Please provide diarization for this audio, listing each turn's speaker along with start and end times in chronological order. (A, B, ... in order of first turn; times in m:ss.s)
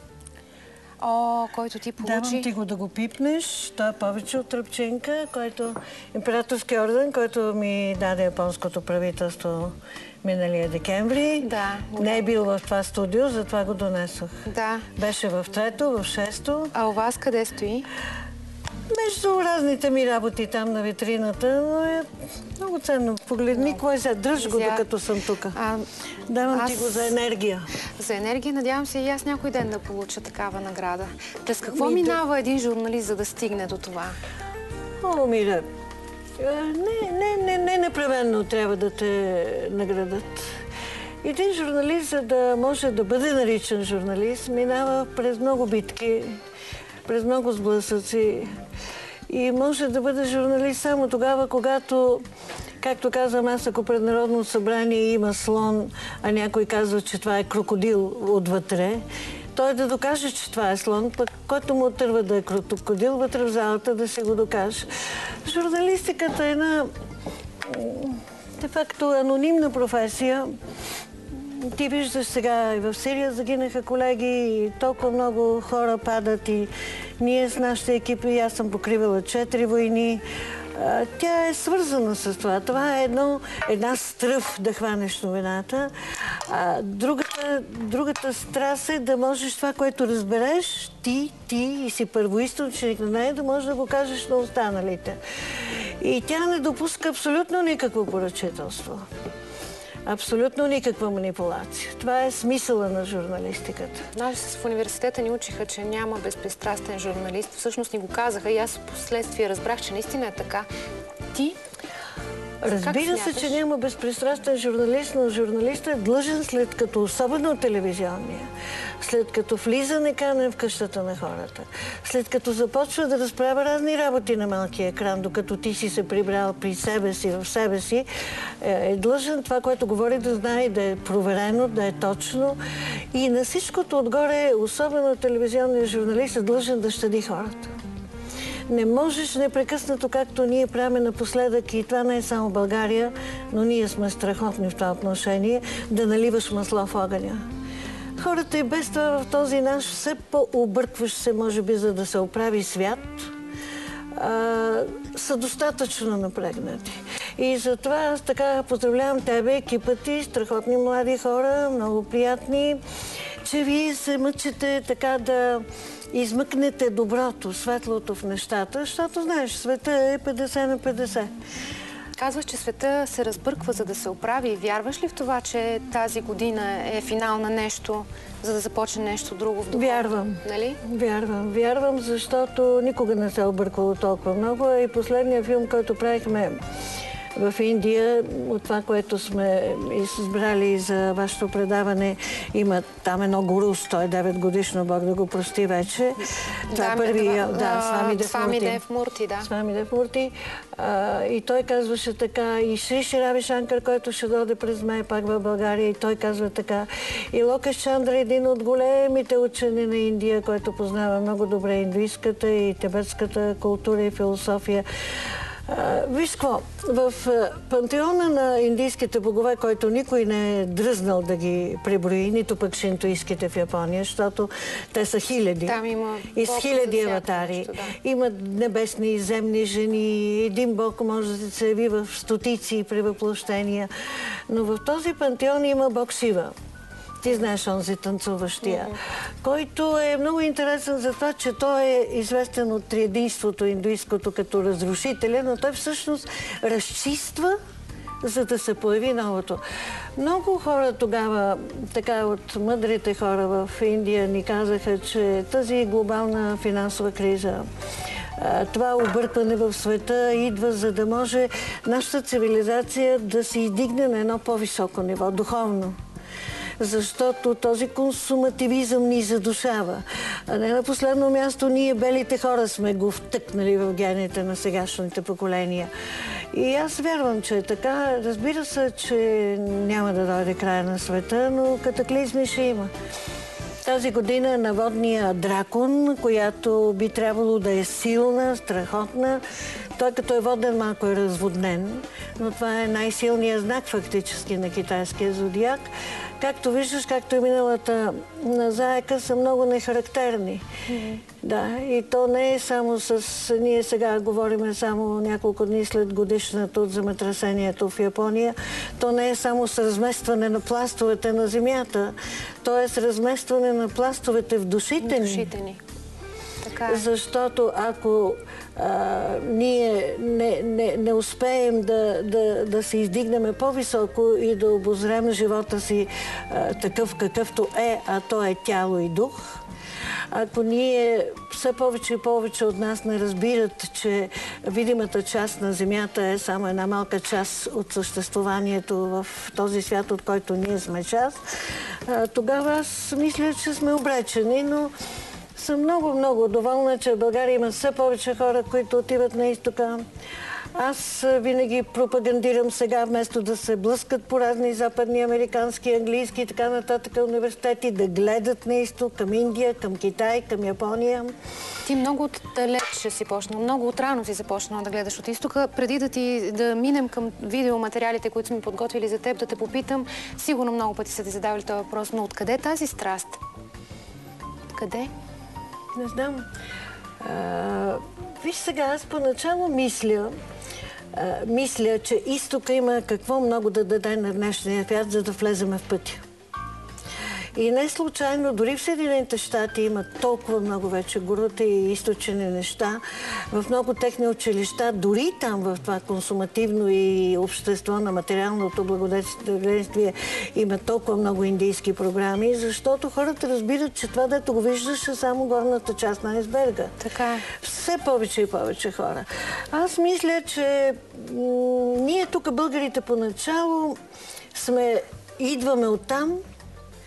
0:01.0-0:02.5 A
0:02.0-0:16.7 B
0:11.4-0:12.2 A
0:14.5-0:14.9 A
0:16.7-0:17.9 A
0:18.9-0:25.6 B
0:23.5-0:23.8 A
0:24.4-0:24.8 A
0:25.5-0:25.9 A
0:26.3-0:27.7 B
0:26.5-0:27.1 A
0:28.0-0:34.2 A
0:31.7-0:32.2 B
0:35.0-0:35.7 B
0:36.4-0:40.6 B
0:41.2-0:46.4 B
0:47.1-0:48.5 B
0:49.3-0:52.2 B
0:52.8-1:06.9 B
1:07.6-1:10.6 B
1:11.3-1:20.2 B
1:20.7-1:39.1 B
1:40.1-1:44.1 B
1:44.1-1:50.7 A
1:51.3-1:51.6 A
1:52.6-2:12.6 B
1:52.7-1:53.6 A
2:13.1-2:17.7 B
2:18.7-2:27.4 B
2:28.2-2:33.4 B
2:34.1-2:42.8 B
2:43.4-2:51.3 B
2:52.2-3:00.8 A
2:59.7-3:06.6 B
3:07.4-3:18.8 B
3:16.7-3:19.5 A
3:19.4-3:45.8 B
3:45.6-3:47.9 A
3:46.3-3:56.6 B
3:57.2-4:07.6 B
4:08.2-4:09.6 B
4:10.2-4:17.7 B
4:18.4-4:26.0 B
4:26.8-4:35.9 B
4:36.5-4:42.9 B
4:43.8-4:49.4 B
4:50.0-4:55.8 B
4:56.4-5:00.7 B
5:00.9-5:01.2 A
5:01.3-5:15.5 B
5:15.0-5:15.8 A
5:16.6-5:17.0 A
5:16.9-5:29.6 B
5:30.3-5:44.9 B
5:45.6-5:50.0 B
5:50.8-6:01.4 B
6:01.8-6:13.4 A
6:14.7-6:15.1 A
6:15.9-6:16.5 B
6:17.2-6:20.3 B
6:21.1-6:26.2 B
6:27.6-6:54.0 B
6:47.0-6:47.5 A
6:54.5-6:56.4 B